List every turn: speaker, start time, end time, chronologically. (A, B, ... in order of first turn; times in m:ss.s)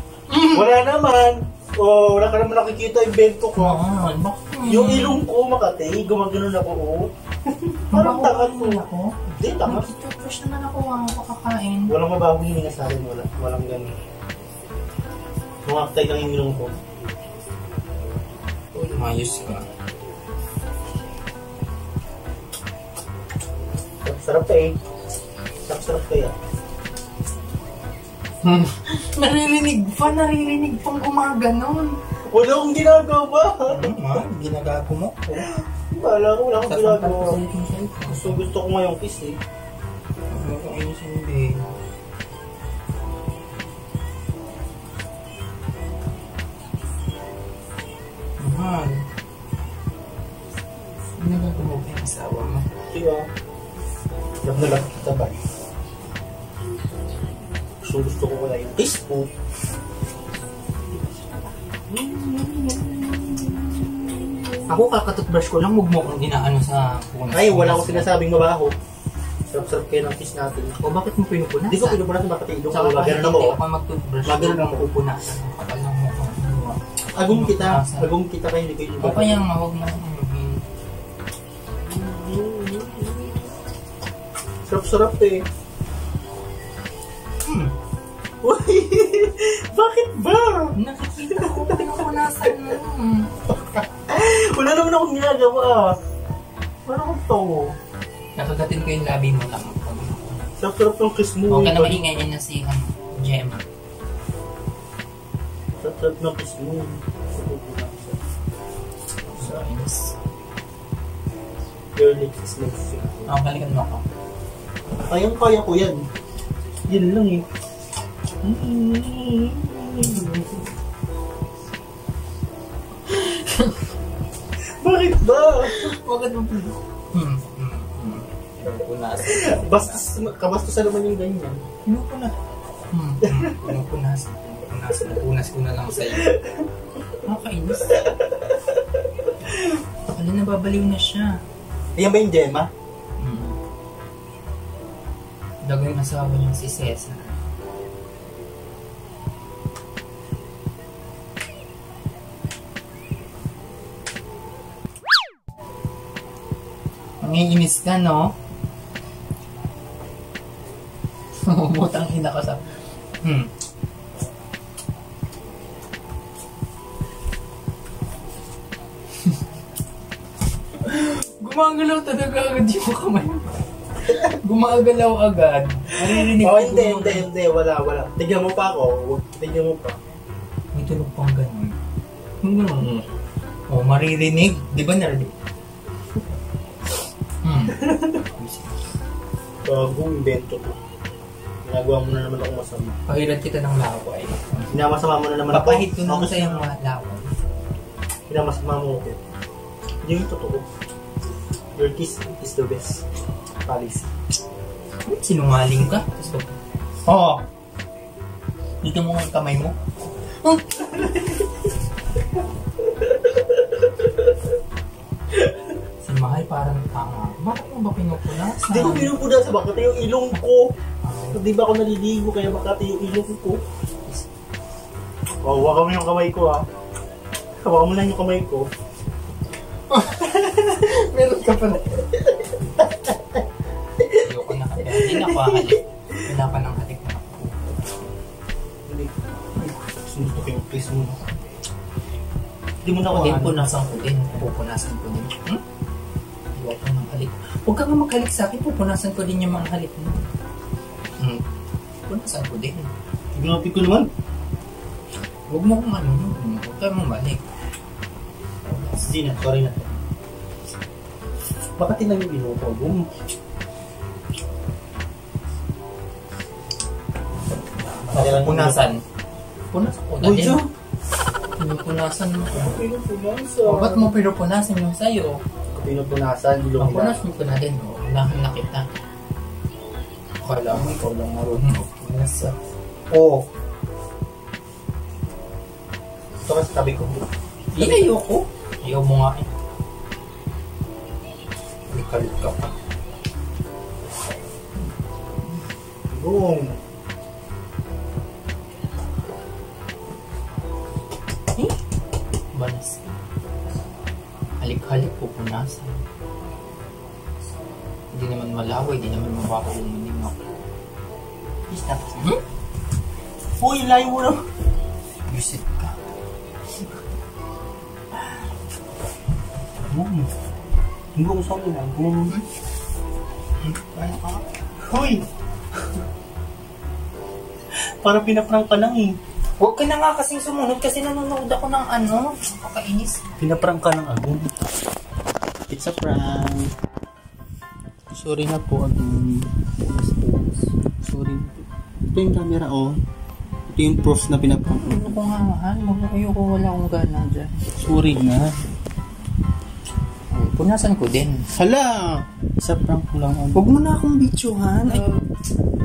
0:00.3-0:00.7 A
0:00.5-0:03.8 B
0:03.6-0:05.2 A
0:04.6-0:08.8 B
0:07.9-0:11.9 A
0:09.4-0:09.9 B
0:11.9-0:13.9 B
0:15.6-0:16.8 B
0:18.8-0:19.0 B
0:18.9-0:19.7 A
0:24.0-0:24.8 B
0:25.7-0:26.3 B
0:28.4-0:32.0 A
0:32.3-0:34.0 B
0:33.7-0:35.4 A
0:35.4-0:37.4 B
0:36.7-0:38.5 A
0:38.0-0:39.4 B
0:40.3-0:41.7 A
0:48.4-0:49.0 A
0:51.2-0:52.7 A
0:52.9-0:53.3 B
0:54.4-0:55.4 B
0:57.8-0:59.3 B
1:01.9-1:04.8 B
1:04.7-1:08.1 A
1:07.3-1:08.8 B
1:09.5-1:10.8 B
1:10.8-1:12.1 A
1:11.7-1:13.6 B
1:12.7-1:18.1 A
1:14.2-1:14.9 B
1:17.1-1:19.4 B
1:19.0-1:20.6 A
1:21.9-1:23.4 B
1:24.6-1:25.4 B
1:27.4-1:27.7 A
1:28.4-1:30.8 B
1:30.8-1:33.3 A
1:31.3-1:31.9 B
1:33.6-1:36.0 B
1:36.8-1:37.8 B
1:38.4-1:40.5 A
1:40.6-1:42.0 B
1:41.5-1:43.6 A
1:45.8-1:48.2 B
1:49.3-1:50.2 A
1:52.0-1:53.3 B
1:53.3-1:54.0 A
1:55.1-1:56.0 B
1:56.9-1:57.4 B
1:58.4-2:00.6 B
2:00.0-2:00.3 A
2:03.1-2:03.8 A
2:04.8-2:05.9 B
2:05.7-2:10.1 A
2:09.2-2:11.6 B
2:11.8-2:12.3 A
2:12.9-2:16.3 A
2:13.2-2:13.6 B
2:16.0-2:16.6 B
2:17.2-2:18.0 A
2:20.1-2:21.4 A
2:22.0-2:22.7 B
2:23.2-2:23.6 A
2:25.6-2:27.4 A
2:37.2-2:38.3 A
2:41.4-2:42.6 A
2:43.2-2:43.5 A
2:50.8-2:57.3 A
2:56.0-3:00.0 B
3:00.7-3:01.8 A
3:02.4-3:03.0 A
3:03.7-3:05.3 A
3:07.4-3:08.8 A
3:07.8-3:08.2 B
3:09.6-3:10.8 B
3:11.6-3:13.0 B
3:13.1-3:14.7 A
3:14.7-3:16.7 B
3:15.5-3:17.3 A
3:18.3-3:19.2 B
3:20.0-3:20.6 B
3:21.8-3:23.0 B
3:23.6-3:24.1 B
3:25.0-3:27.4 A
3:25.8-3:26.0 B
3:28.8-3:29.8 A
3:30.4-3:30.8 A
3:30.9-3:31.3 B
3:36.0-3:39.2 A
3:38.6-3:40.7 B
3:41.0-3:41.4 A
3:41.3-3:43.6 B
3:45.4-3:46.6 B
3:47.6-3:48.7 B
3:49.9-3:52.0 A
3:52.5-3:53.4 B
3:54.1-3:58.0 A
3:54.9-3:55.8 B
3:58.9-4:01.2 B
4:02.8-4:03.7 B
4:03.1-4:05.6 A
4:06.5-4:10.2 A
4:11.2-4:11.4 A
4:12.1-4:12.9 A
4:13.3-4:14.1 B
4:15.5-4:17.4 A
4:18.6-4:19.1 A
4:19.0-4:20.0 B
4:21.8-4:23.1 B
4:28.0-4:28.8 B
4:28.1-4:29.0 A
4:29.7-4:30.6 A
4:30.2-4:30.7 B
4:31.6-4:32.8 A
4:32.5-4:34.1 B
4:33.6-4:35.4 A
4:35.7-4:37.2 B
4:36.8-4:38.9 A
4:40.4-4:42.6 A
4:40.7-4:41.5 B
4:43.1-4:43.4 B
4:46.4-4:48.1 B
4:47.7-4:49.5 A
4:51.9-4:52.7 A
4:56.1-4:56.8 B
5:02.5-5:03.2 A
5:04.6-5:06.0 A
5:08.1-5:10.4 A
5:11.7-5:12.2 B
5:12.1-5:12.4 A
5:13.6-5:14.4 B
5:15.3-5:16.0 A
5:19.9-5:20.3 B
5:21.2-5:22.3 B
5:23.6-5:24.4 A
5:24.9-5:25.2 B
5:27.8-5:29.2 B
5:29.6-5:33.2 A
5:33.4-5:34.5 B
5:35.7-5:36.7 B
5:38.1-5:43.0 B
5:43.7-5:45.2 B
5:44.7-5:47.7 A
5:47.7-5:48.5 B
5:50.3-5:51.4 A
5:51.5-5:53.6 B
5:53.5-5:55.1 A